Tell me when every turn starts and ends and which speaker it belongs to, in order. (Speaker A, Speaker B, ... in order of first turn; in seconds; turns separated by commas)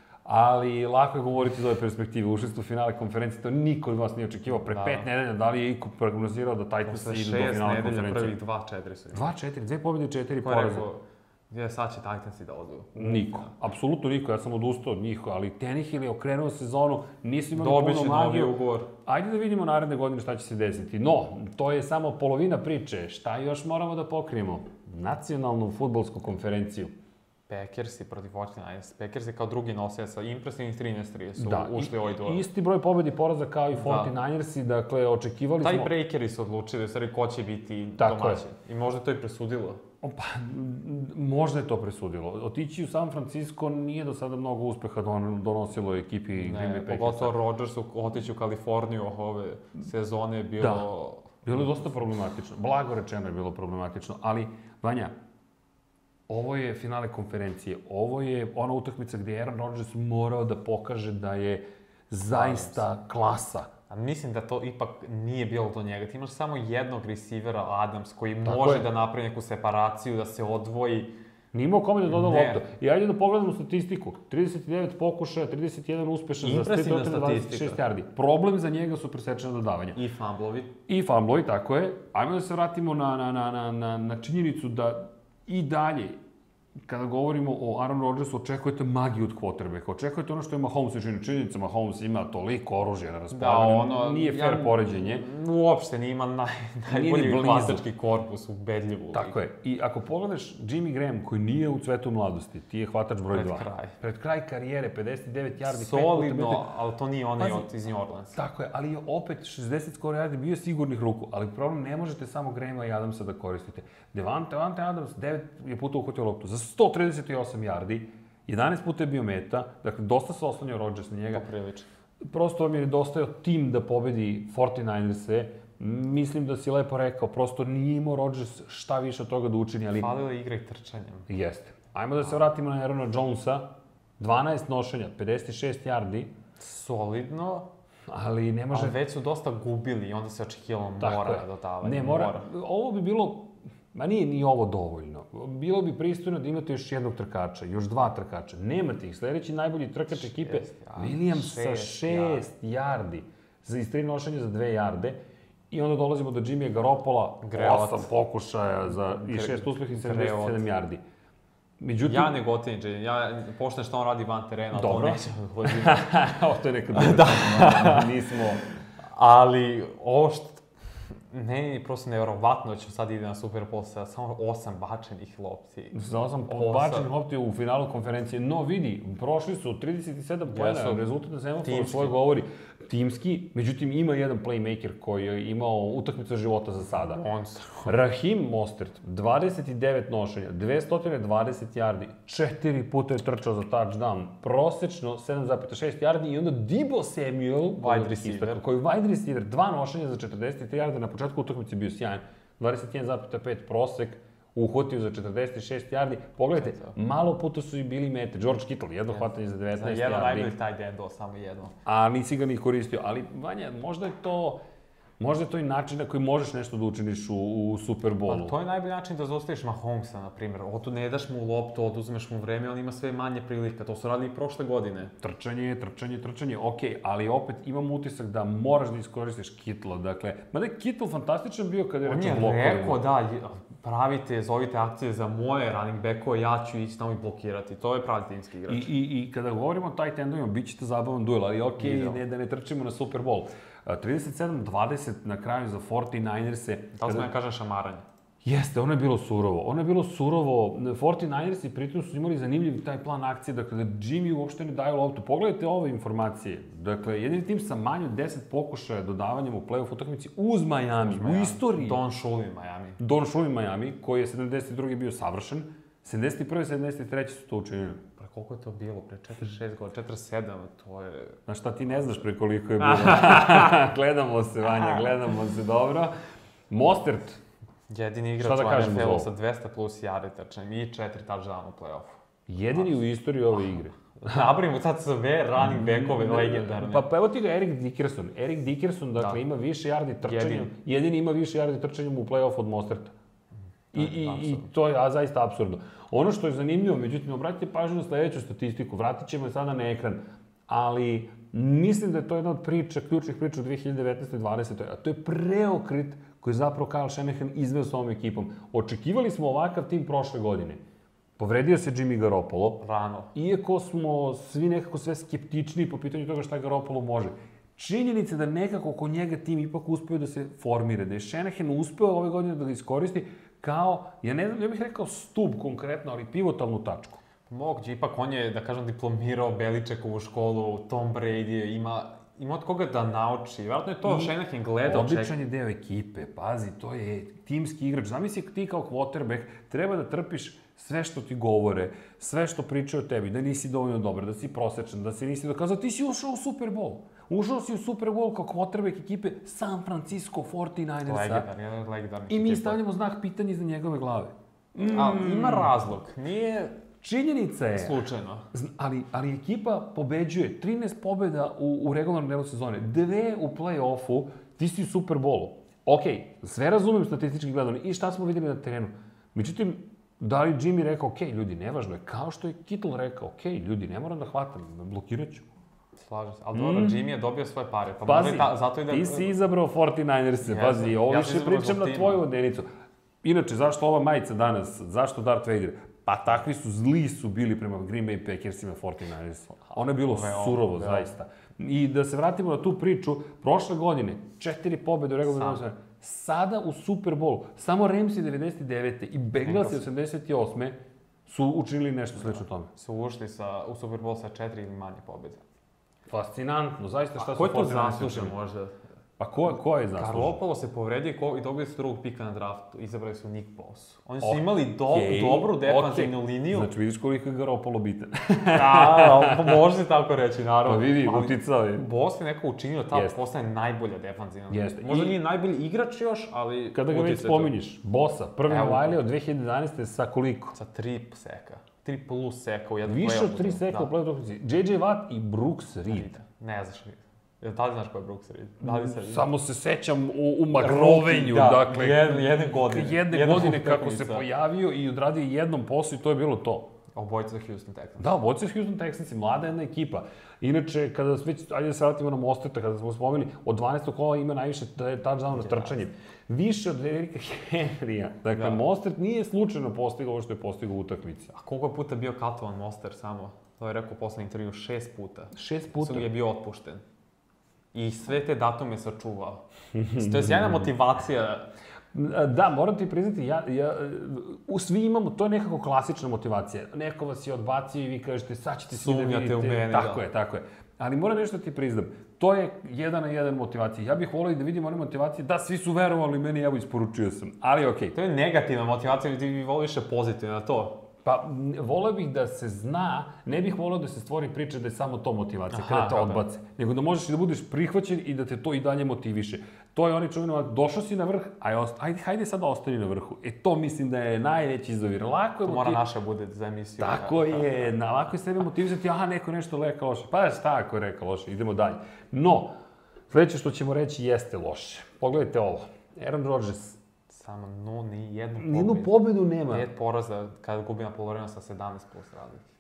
Speaker A: 0.2-8.4, Speaker B: 4.6-5.1, Speaker B: 6.8-9.3, Speaker A: 9.1-10.9, Speaker B: 10.4-13.6, Speaker A: 13.0-26.9, Speaker B: 17.5-18.9, Speaker B: 27.5-32.5, Speaker A: 31.4-35.9, Speaker B: 33.7-34.1, Speaker B: 35.6-39.8, Speaker A: 38.0-38.4, Speaker A: 40.0-47.4, Speaker B: 46.4-51.6, Speaker A: 50.6-50.9, Speaker A: 51.5-55.1, Speaker A: 56.3-63.7, Speaker B: 62.3-62.9, Speaker B: 63.9-71.1, Speaker A: 68.5-68.9, Speaker A: 71.5-80.0, Speaker B: 72.1-72.6, Speaker B: 76.4-77.8, Speaker B: 80.0-80.7, Speaker A: 80.9-86.2, Speaker A: 86.9-95.2, Speaker B: 93.3-99.4, Speaker A: 96.9-97.8, Speaker A: 99.1-106.7, Speaker B: 103.3-104.0, Speaker B: 105.7-108.4, Speaker A: 107.4-107.7, Speaker A: 108.3-121.5, Speaker B: 121.3-121.9, Speaker A: 122.2-130.1, Speaker B: 129.9-131.3, Speaker A: 131.3-133.7, Speaker A: 134.2-136.3, Speaker B: 136.6-137.7, Speaker A: 138.1-139.0, Speaker B: 138.7-142.5, Speaker A: 141.0-155.2, Speaker B: 150.1-152.5, Speaker A: 155.7-161.0, Speaker B: 157.4-158.1, Speaker B: 159.0-160.7, Speaker A: 161.8-162.4, Speaker B: 162.0-166.1, Speaker A: 164.7-168.6, Speaker B: 166.9-168.4, Speaker B: 169.1-170.6, Speaker B: 171.3-177.1, Speaker A: 175.9-187.2, Speaker B: 180.5-181.0, Speaker B: 181.6-182.2, Speaker B: 186.9-187.9, Speaker A: 187.8-210.5, Speaker B: 197.8-198.6, Speaker B: 206.6-206.9, Speaker B: 209.1-211.8, Speaker A: 211.9-214.6, Speaker A: 215.2-218.6, Speaker B: 218.3-225.1, Speaker A: 225.2-233.0, Speaker B: 232.0-238.9, Speaker A: 238.7-247.3, Speaker B: 241.8-242.2, Speaker B: 246.9-248.0, Speaker A: 248.4-262.0, Speaker B: 261.0-263.0, Speaker A: 263.0-268.0, Speaker B: 268.2-271.4, Speaker A: 271.5-276.1, Speaker B: 272.8-273.8, Speaker A: 276.7-277.4, Speaker B: 277.9-282.1, Speaker A: 278.4-279.3, Speaker A: 282.5-284.5, Speaker B: 284.2-287.1, Speaker A: 285.6-293.1, Speaker B: 290.2-290.7, Speaker A: 293.9-310.8, Speaker B: 293.9-294.7, Speaker A: 311.4-312.8, Speaker B: 312.8-313.3, Speaker A: 313.3-327.2, Speaker B: 327.5-335.4, Speaker A: 334.0-351.5, Speaker B: 351.0-352.8, Speaker A: 352.3-355.8, Speaker B: 354.8-356.8, Speaker A: 357.0-358.0, Speaker B: 357.7-358.5, Speaker A: 358.5-375.5, Speaker B: 376.0-379.3, Speaker A: 376.5-377.0, Speaker A: 378.0-382.7, Speaker B: 380.4-382.2, Speaker A: 383.2-400.8, Speaker B: 389.7-391.1, Speaker B: 395.2-395.6, Speaker B: 399.4-399.8, Speaker A: 401.2-402.7, Speaker B: 402.7-405.4, Speaker A: 406.1-408.3, Speaker B: 407.2-408.8, Speaker A: 409.2-410.4, Speaker B: 409.9-416.7, Speaker A: 414.2-419.6, Speaker B: 418.5-427.5, Speaker A: 420.7-421.9, Speaker A: 422.9-423.2, Speaker A: 424.5-425.2, Speaker A: 426.7-430.5, Speaker B: 428.5-429.0, Speaker B: 430.5-433.9, Speaker A: 432.9-436.1, Speaker B: 435.9-439.3, Speaker A: 438.6-446.7, Speaker B: 440.5-444.3, Speaker B: 446.9-448.1, Speaker A: 448.0-461.3, Speaker B: 455.3-455.8, Speaker B: 458.3-458.6, Speaker B: 461.3-466.8, Speaker A: 465.3-466.1, Speaker B: 467.7-469.4, Speaker A: 469.7-470.7, Speaker B: 469.9-471.5, Speaker A: 471.9-487.9, Speaker B: 478.7-480.0, Speaker B: 487.9-490.8, Speaker A: 491.0-505.8, Speaker B: 495.5-496.2, Speaker B: 505.4-507.8, Speaker A: 506.8-512.5, Speaker A: 513.1-516.8, Speaker B: 517.1-519.0, Speaker A: 518.4-519.7, Speaker B: 519.5-522.5